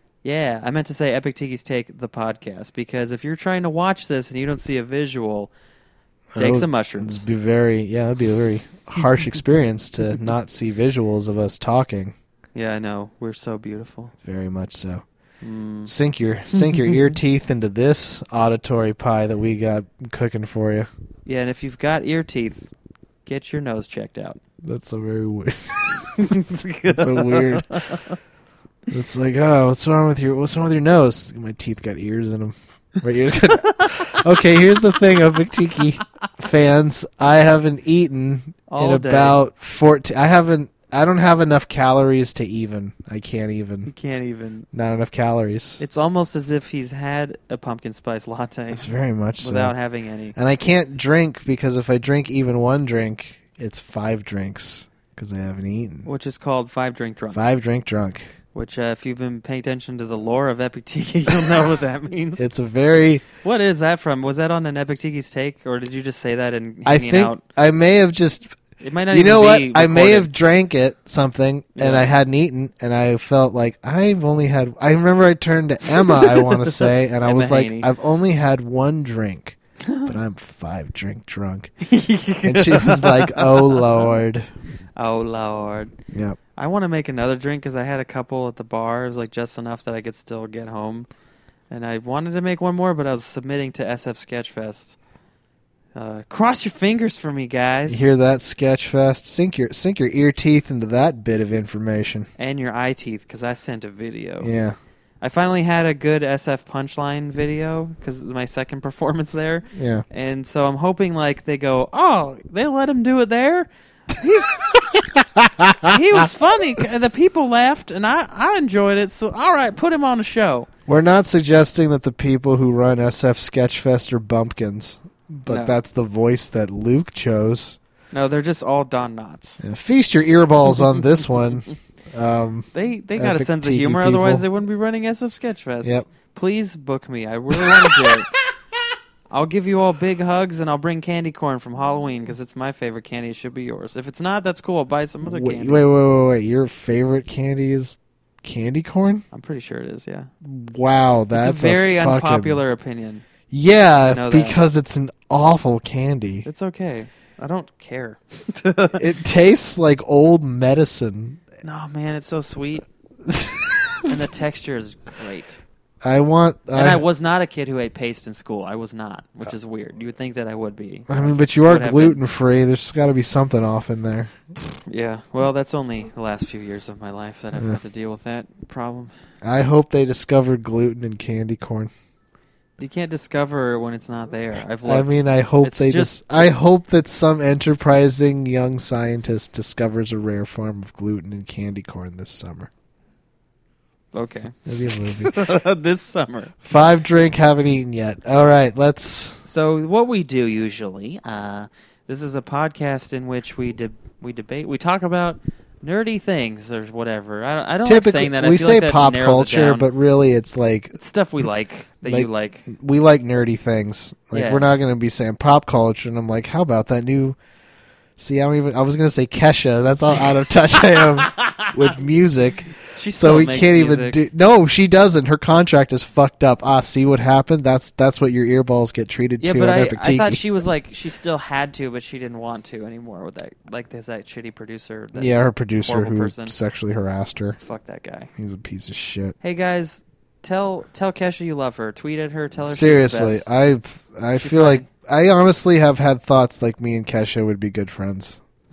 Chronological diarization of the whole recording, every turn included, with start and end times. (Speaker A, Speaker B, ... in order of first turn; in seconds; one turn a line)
Speaker A: 0.2-5.5
Speaker B: 6.3-12.1
Speaker A: 6.4-7.2
Speaker A: 12.5-14.1
Speaker B: 14.2-15.0
Speaker A: 15.4-15.9
Speaker B: 15.8-20.9
Speaker A: 16.5-17.1
Speaker A: 21.2-22.7
Speaker A: 23.2-24.4
Speaker B: 24.6-27.7
Speaker A: 26.1-28.2
Speaker B: 28.9-43.9
Speaker A: 33.6-34.2
Speaker A: 38.7-39.4
Speaker A: 43.9-44.7
Speaker B: 44.7-45.8
Speaker A: 45.8-48.9
Speaker B: 48.7-49.7
Speaker A: 49.4-50.4
Speaker B: 50.3-56.1
Speaker A: 56.0-57.4
Speaker B: 57.3-58.3
Speaker A: 58.5-62.5
Speaker B: 62.4-63.2
Speaker A: 63.4-67.4
Speaker B: 66.8-68.5
Speaker A: 68.8-70.3
Speaker B: 69.1-81.7
Speaker A: 71.7-72.1
Speaker A: 76.0-77.9
Speaker A: 79.8-80.2
Speaker A: 81.8-84.1
Speaker B: 82.4-84.5
Speaker A: 85.0-85.9
Speaker B: 86.1-86.4
Speaker A: 86.5-91.1
Speaker A: 91.7-95.0
Speaker A: 95.9-98.0
Speaker B: 97.9-102.3
Speaker A: 102.4-104.5
Speaker B: 104.4-104.7
Speaker A: 105.2-114.6
Speaker B: 109.7-110.0
Speaker B: 114.6-116.3
Speaker A: 115.8-120.7
Speaker B: 120.9-127.8
Speaker A: 125.5-125.8
Speaker A: 128.1-129.6
Speaker B: 129.6-134.4
Speaker A: 132.7-138.3
Speaker B: 137.5-138.2
Speaker A: 139.3-145.8
Speaker B: 145.2-149.2
Speaker A: 149.3-150.3
Speaker B: 150.4-152.6
Speaker A: 151.3-153.2
Speaker B: 153.5-156.4
Speaker A: 154.0-154.6
Speaker A: 156.4-159.1
Speaker B: 158.9-161.4
Speaker A: 161.6-162.8
Speaker B: 163.2-164.1
Speaker A: 164.1-165.6
Speaker B: 166.0-167.0
Speaker A: 166.7-172.2
Speaker B: 171.1-174.3
Speaker A: 174.9-179.1
Speaker B: 179.4-181.9
Speaker A: 182.8-186.5
Speaker B: 184.8-192.7
Speaker A: 194.1-196.6
Speaker B: 194.7-195.4
Speaker B: 196.6-199.4
Speaker A: 199.4-209.9
Speaker B: 207.8-211.0
Speaker A: 211.0-212.7
Speaker B: 212.0-217.4
Speaker A: 214.3-214.7
Speaker B: 218.2-230.4
Speaker A: 220.9-221.9
Speaker A: 222.9-224.2
Speaker A: 229.4-236.5
Speaker B: 235.1-237.6
Speaker A: 237.6-238.3
Speaker B: 238.4-239.3
Speaker A: 239.4-243.5
Speaker B: 242.7-248.4
Speaker A: 244.3-244.8